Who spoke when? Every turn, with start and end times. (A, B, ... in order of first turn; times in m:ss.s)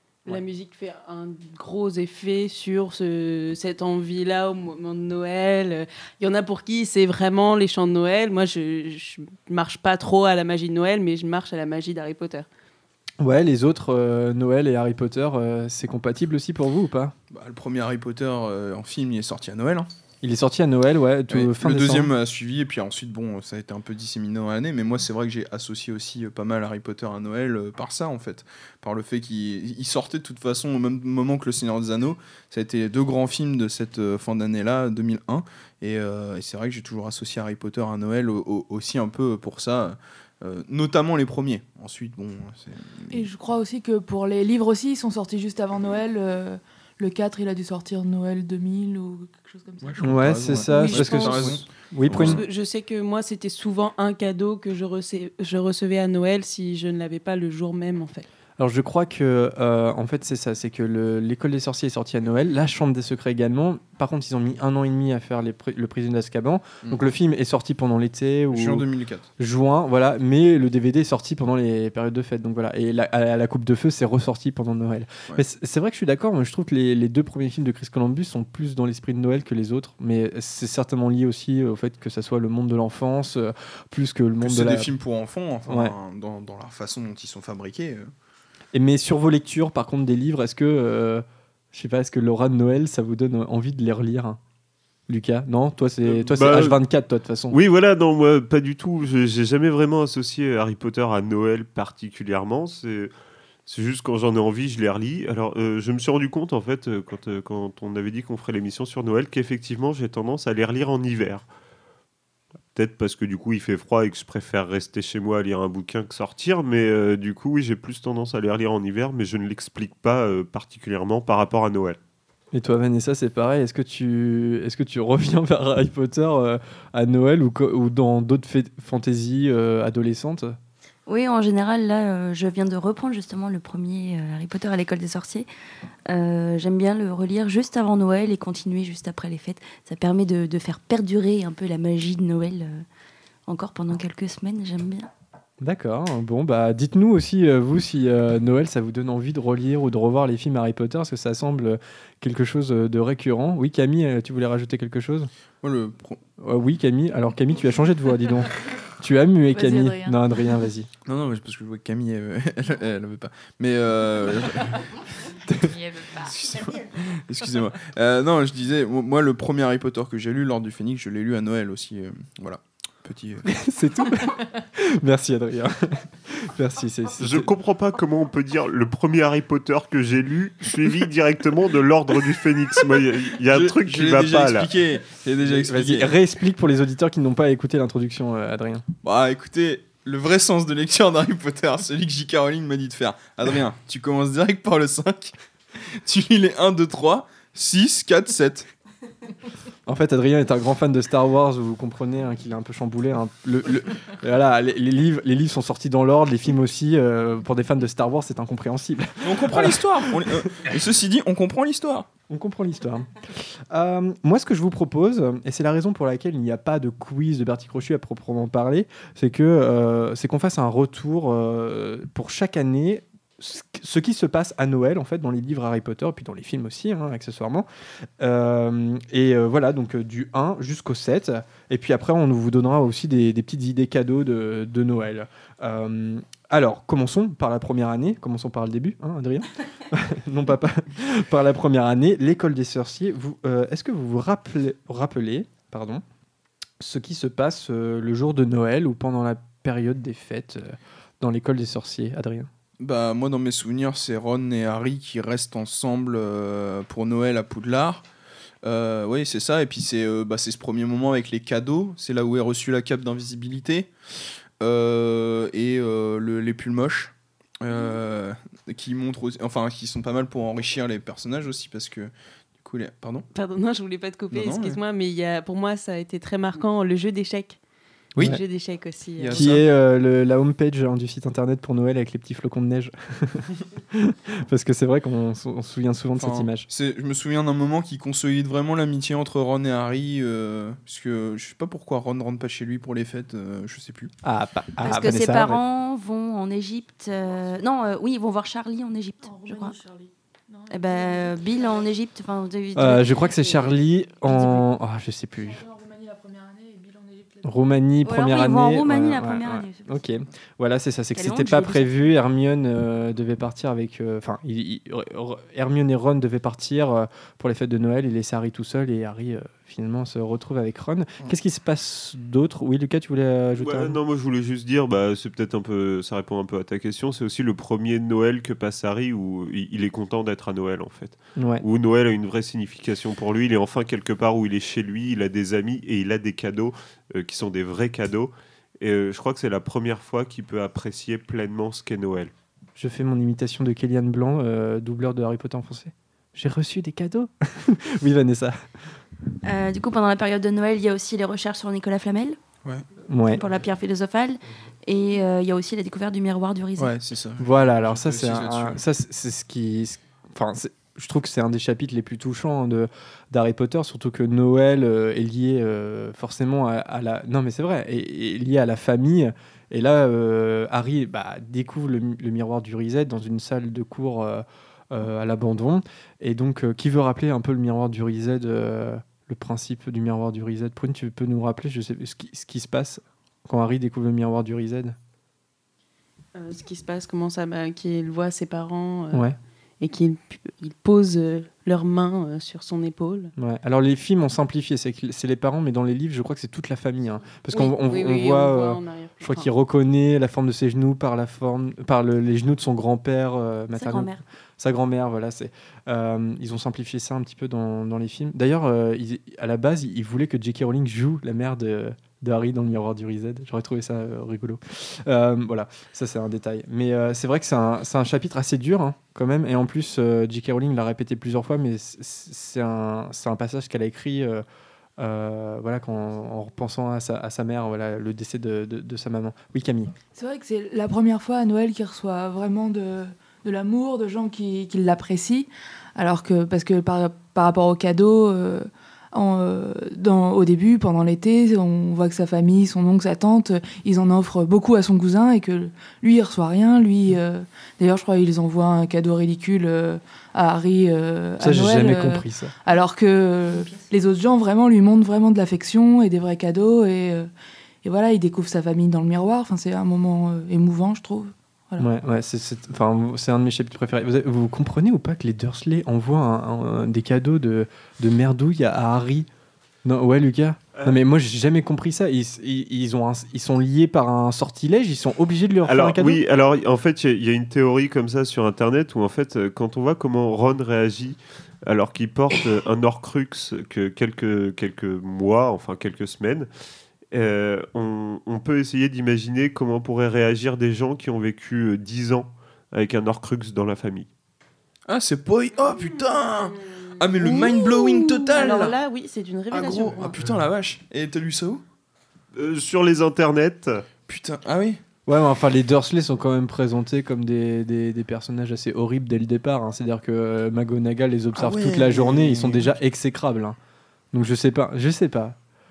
0:00.2-0:12.5 A
0:13.2-0:17.1 B
0:17.3-0:19.9 C
0:20.2-0:22.1 B
0:21.3-0:43.3 C
0:43.1-0:50.0 D
0:49.8-0:52.4 C
0:50.0-0:52.4 B
0:50.7-0:51.2 D
0:50.8-0:51.5 A
0:52.1-0:58.2 A
0:58.6-1:08.8 B
1:08.5-1:09.3 C
1:09.4-1:24.9 B
1:24.4-1:28.1 C
1:25.7-1:25.9 B
1:28.7-1:34.4 B
1:35.1-1:37.6 B
1:36.0-1:36.4 C
1:36.3-1:36.8 E
1:37.5-1:43.1 E
1:43.6-1:51.5 E
1:52.7-2:02.0 E
2:02.5-2:10.6 B
2:11.1-2:15.5 F
2:16.1-2:22.8 F
2:23.5-2:25.1 F
2:25.6-2:35.3 B
2:35.6-2:36.2 C
2:36.4-2:40.9 B
2:39.5-2:40.2 D
2:41.0-2:44.9 C
2:45.8-2:46.1 D
2:46.1-2:53.4 C
2:53.5-2:57.5 B
2:57.2-3:04.7 E
3:03.5-3:06.1 C
3:05.4-3:08.8 B
3:09.0-3:15.3 C
3:15.9-3:18.7 C
3:19.9-3:30.6 B
3:29.2-3:32.1 C
3:32.3-3:33.1 B
3:33.7-3:47.6 B
3:48.2-4:06.0 B
4:06.8-4:12.5 B
4:12.8-4:18.0 C
4:18.6-4:23.9 C
4:24.6-4:33.3 C
4:33.3-4:37.6 A
4:34.3-4:34.8 C
4:38.2-4:39.5 A
4:39.2-4:39.6 C
4:39.3-4:46.7 B
4:46.2-4:54.1 C
4:54.2-4:55.6 B
4:54.8-4:59.8 F
4:59.2-5:01.9 D
5:00.7-5:04.6 F
5:02.7-5:05.6 B
5:05.4-5:07.6 D
5:07.4-5:24.0 B
5:08.0-5:10.0 F
5:11.1-5:12.0 F
5:23.6-5:42.3 E
5:31.4-5:31.6 B
5:42.8-5:48.6 B
5:49.4-5:52.4 F
5:53.1-5:53.4 B
5:53.3-5:56.9 F
5:56.8-5:58.8 C
5:57.4-6:25.0 B
6:26.3-6:29.2 A
6:29.8-6:33.3 A
6:33.4-7:04.4 B
6:37.5-6:39.5 A
6:43.7-6:44.2 F
7:05.0-7:09.9 B
7:10.1-7:37.3 D
7:31.4-7:32.5 B
7:33.5-7:33.9 F
7:37.8-7:41.9 D
7:41.8-7:49.3 B
7:49.8-7:56.2 B
7:55.6-8:06.5 E
8:07.1-8:14.1 E
8:14.9-8:18.8 C
8:17.2-8:20.1 A
8:19.5-8:21.6 C
8:22.3-8:23.8 E
8:24.1-8:24.8 C
8:25.0-8:33.6 B
8:31.3-8:32.7 C
8:34.1-8:35.4 B